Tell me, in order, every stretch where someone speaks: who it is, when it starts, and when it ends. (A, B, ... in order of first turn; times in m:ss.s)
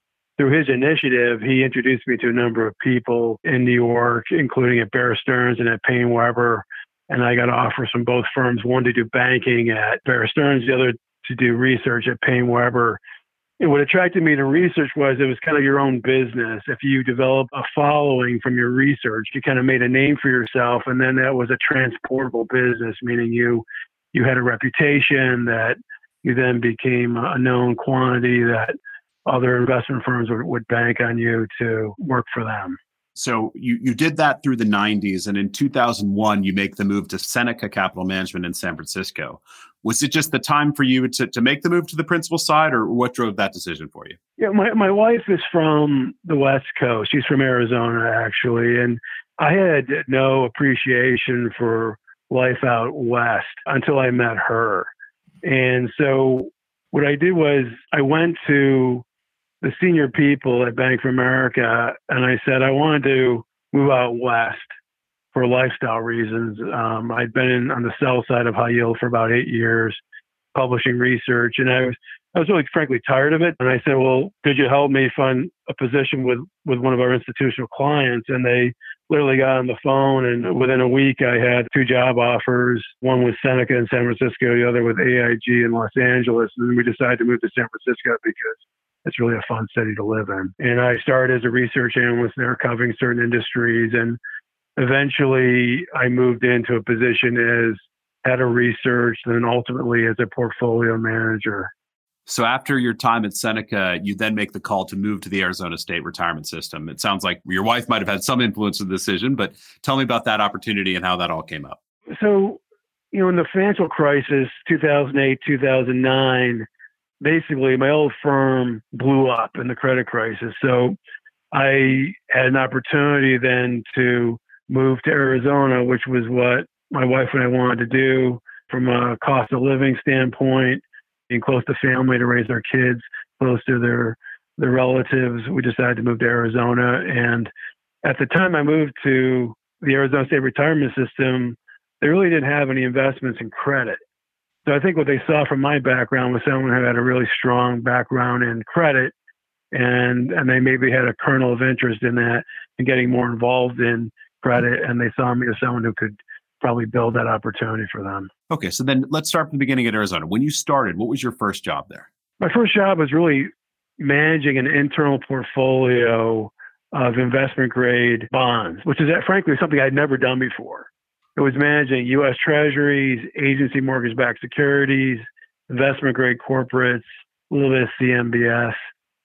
0:00.4-0:13.0 A
0:13.6-0:28.7 A
0:29.2-0:32.8 A
0:33.2-0:44.2 B
0:44.4-0:54.9 A
0:55.4-0:59.0 A
0:59.6-1:04.7 A
1:05.3-1:10.0 A
1:10.5-1:34.2 A
1:34.8-1:41.7 A
1:42.3-1:51.8 B
1:52.2-1:52.6 A
1:53.1-1:56.7 A
1:57.2-2:01.0 A
2:01.5-2:17.5 A
2:18.0-2:24.0 A
2:24.7-2:29.1 A
2:29.7-2:38.3 A
2:38.5-2:42.1 B
2:42.4-2:58.8 A